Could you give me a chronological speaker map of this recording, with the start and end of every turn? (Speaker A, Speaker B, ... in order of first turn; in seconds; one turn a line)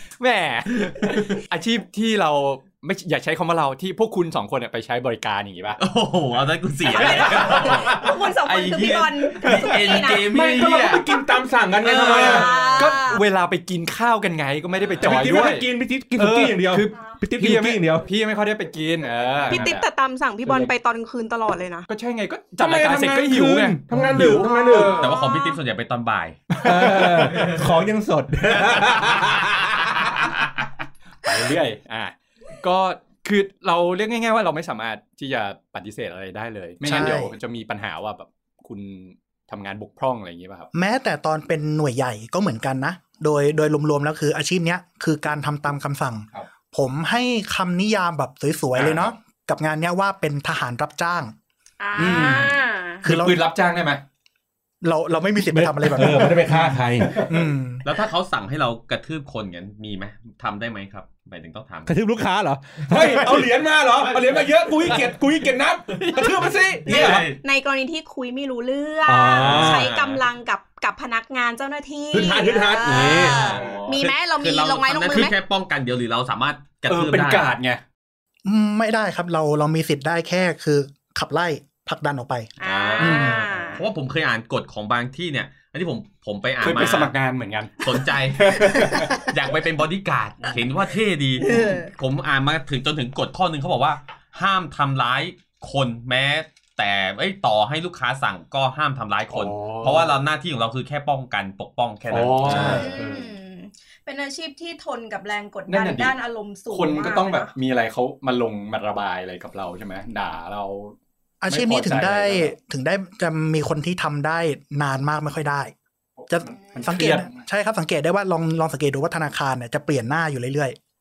Speaker A: 0.2-5.8
Speaker B: 5.8-11.1
Speaker C: 6.9-13.2
Speaker A: 7.0-7.9
Speaker A: 9.4-9.7
Speaker D: 10.3-12.7
Speaker A: 11.8-19.9
Speaker D: 15.0-18.1
Speaker C: 19.5-21.9
Speaker A: 20.4-20.7
Speaker A: 21.9-25.1
Speaker D: 22.6-25.1
Speaker C: 24.1-25.6
Speaker B: 25.0-26.6
Speaker A: 26.5-27.6
Speaker D: 26.6-30.0
Speaker B: 27.2-27.6
Speaker B: 28.7-29.4
Speaker A: 31.2-40.7
Speaker E: 36.8-37.3
Speaker E: 40.7-51.3
Speaker A: 48.8-49.1
Speaker C: 51.8-53.0
Speaker E: 52.0-53.4
Speaker A: 52.0-52.4
Speaker A: 53.0-54.0
Speaker E: 54.8-56.7
Speaker D: 55.5-57.3
Speaker A: 56.0-57.5
Speaker E: 57.2-57.8
Speaker B: 57.8-61.9
Speaker D: 61.9-67.3
Speaker A: 62.9-63.5
Speaker A: 64.2-65.0
Speaker A: 65.9-67.2
Speaker B: 66.8-67.4
Speaker C: 67.3-75.3
Speaker D: 69.0-69.9
Speaker B: 69.3-70.2
Speaker A: 69.4-70.0
Speaker D: 72.1-73.5
Speaker B: 72.8-77.5
Speaker A: 73.4-74.0
Speaker A: 76.9-77.8
Speaker E: 78.4-83.4
Speaker C: 82.6-83.8
Speaker B: 82.6-87.1
Speaker A: 86.6-89.2
Speaker B: 87.8-102.9
Speaker C: 91.4-91.9
Speaker A: 99.3-100.1
Speaker A: 102.1-103.3
Speaker D: 102.5-102.8
Speaker C: 102.6-107.5
Speaker A: 105.7-106.2
Speaker A: 106.7-111.0
Speaker E: 111.4-115.7
Speaker A: 111.5-112.5
Speaker A: 116.2-117.3
Speaker E: 116.3-120.8